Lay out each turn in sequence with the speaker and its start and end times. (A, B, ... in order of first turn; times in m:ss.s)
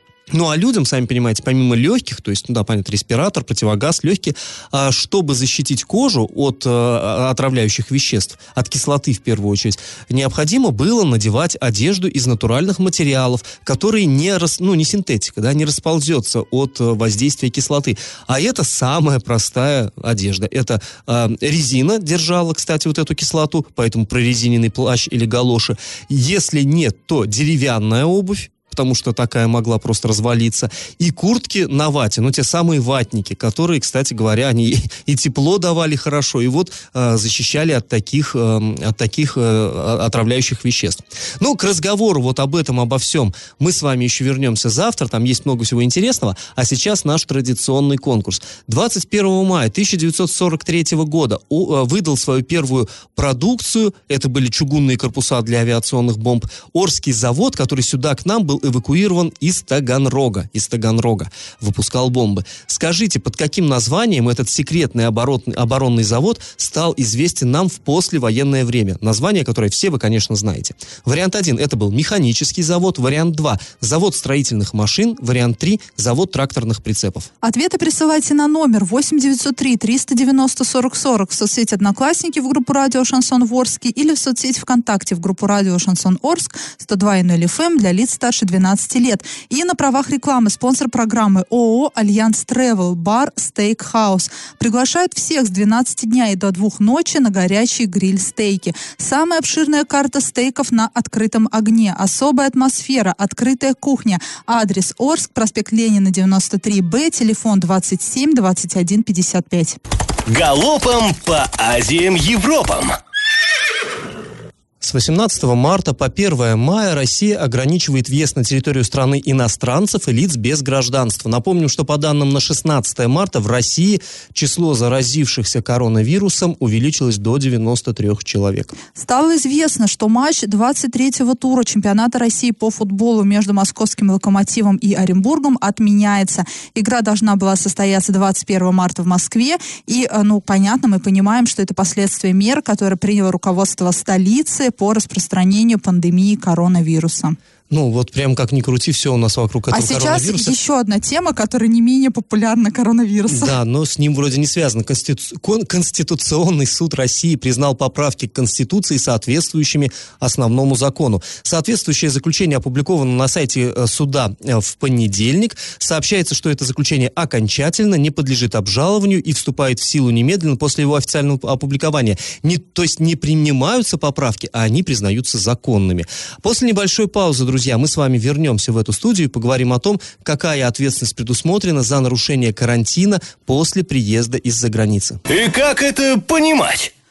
0:00.3-1:17.3 A
1:17.4-1:49.8 B
1:50.2-1:53.0 C
1:54.8-2:08.8 A
2:08.9-2:27.4 B
2:27.7-2:30.5 A
2:29.7-2:33.6 B
2:33.3-3:05.2 A
3:05.3-3:06.9 C